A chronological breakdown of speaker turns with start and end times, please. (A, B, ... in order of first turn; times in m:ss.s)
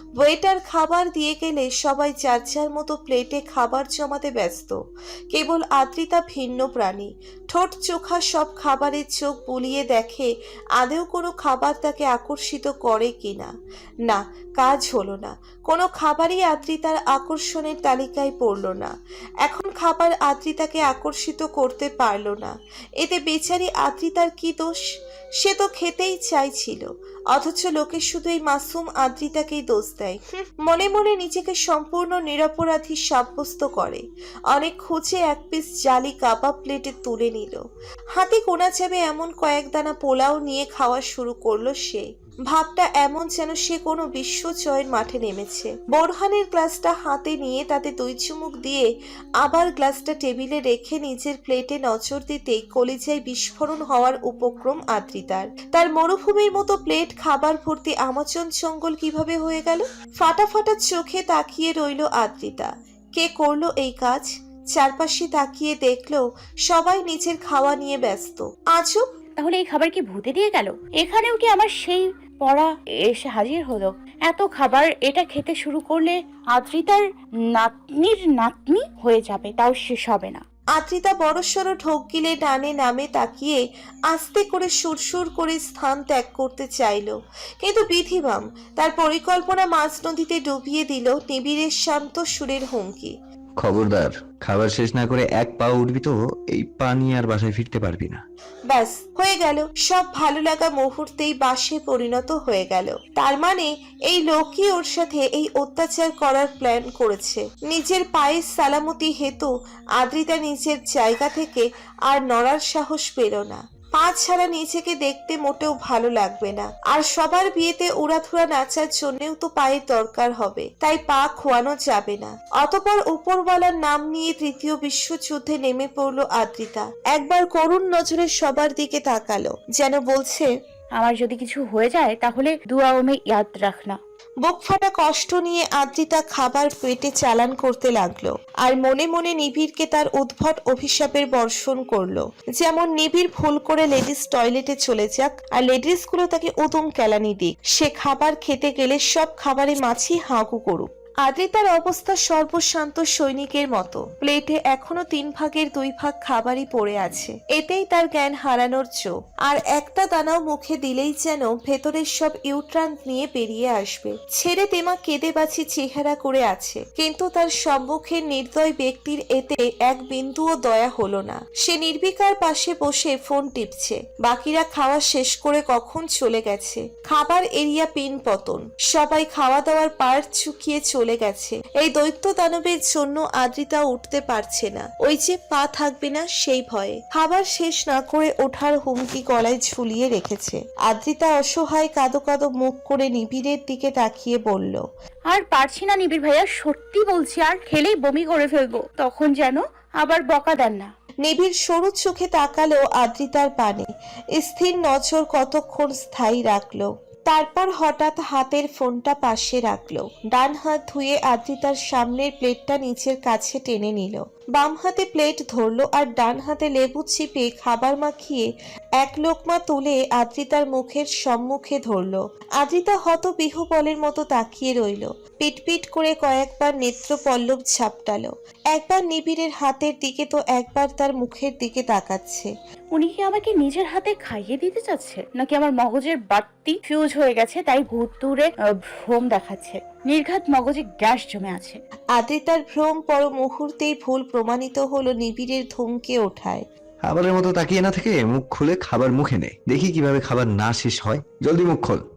0:00.2-0:04.8 A
0:05.3-0:13.5 A
0:14.1-0:24.7 A
0:25.4-0:48.9 A
0:49.4-1:09.1 A
1:09.4-1:20.4 B
1:20.8-1:33.2 A
1:33.6-1:38.2 C
1:38.7-2:10.5 A
2:11.0-2:14.0 B
2:14.4-3:14.8 A
3:15.3-3:20.9 B
3:21.2-3:38.5 A
3:39.0-3:52.5 A
3:52.9-4:01.8 B
4:02.2-4:06.6 A
4:07.0-4:12.0 C